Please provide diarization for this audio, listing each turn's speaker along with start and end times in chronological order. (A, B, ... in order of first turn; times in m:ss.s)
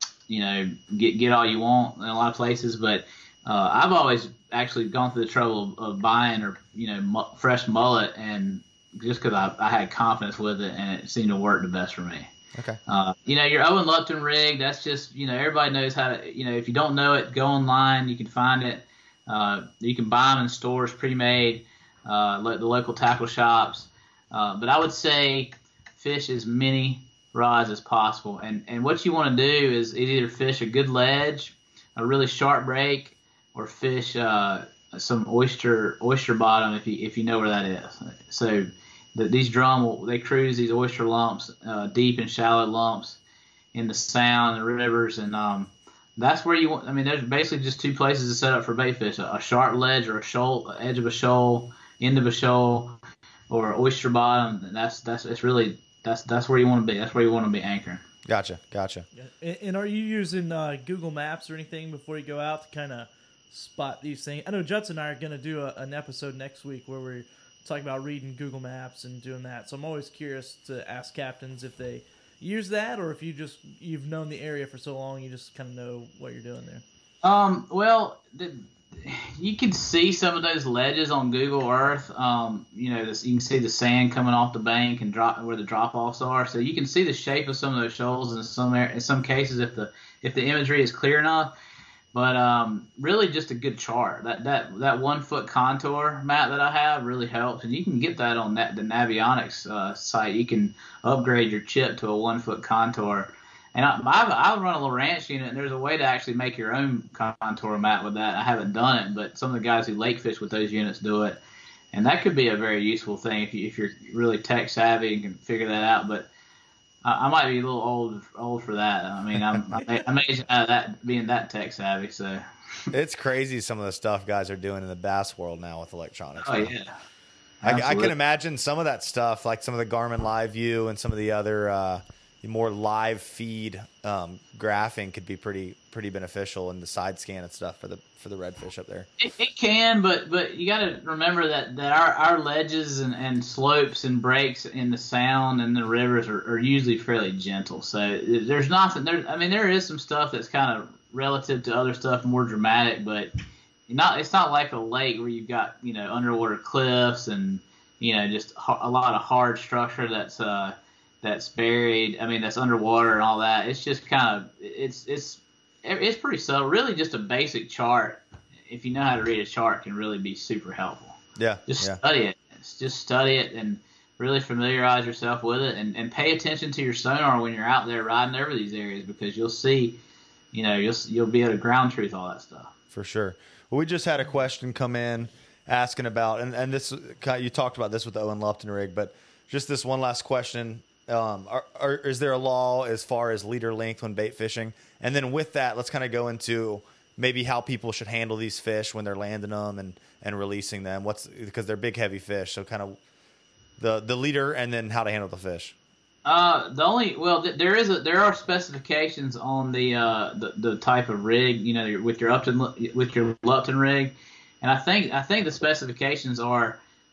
0:00.3-0:12.3 A
0:12.9-0:43.2 A
0:43.7-0:53.0 A
0:53.5-0:58.0 A
0:58.3-0:59.1 B
0:59.2-1:16.8 C
1:17.2-1:31.5 A
1:32.1-1:51.4 A
1:51.9-1:56.3 A
1:57.0-2:02.9 A
2:02.9-2:06.7 B
2:06.4-2:06.9 A
2:07.6-2:08.1 A
2:07.6-2:19.1 B
2:19.2-2:33.3 A
2:33.9-3:00.0 A
2:51.4-2:52.0 B
3:00.5-3:02.7 A
3:02.9-3:23.0 B
3:23.8-3:25.8 B
3:26.2-3:36.8 A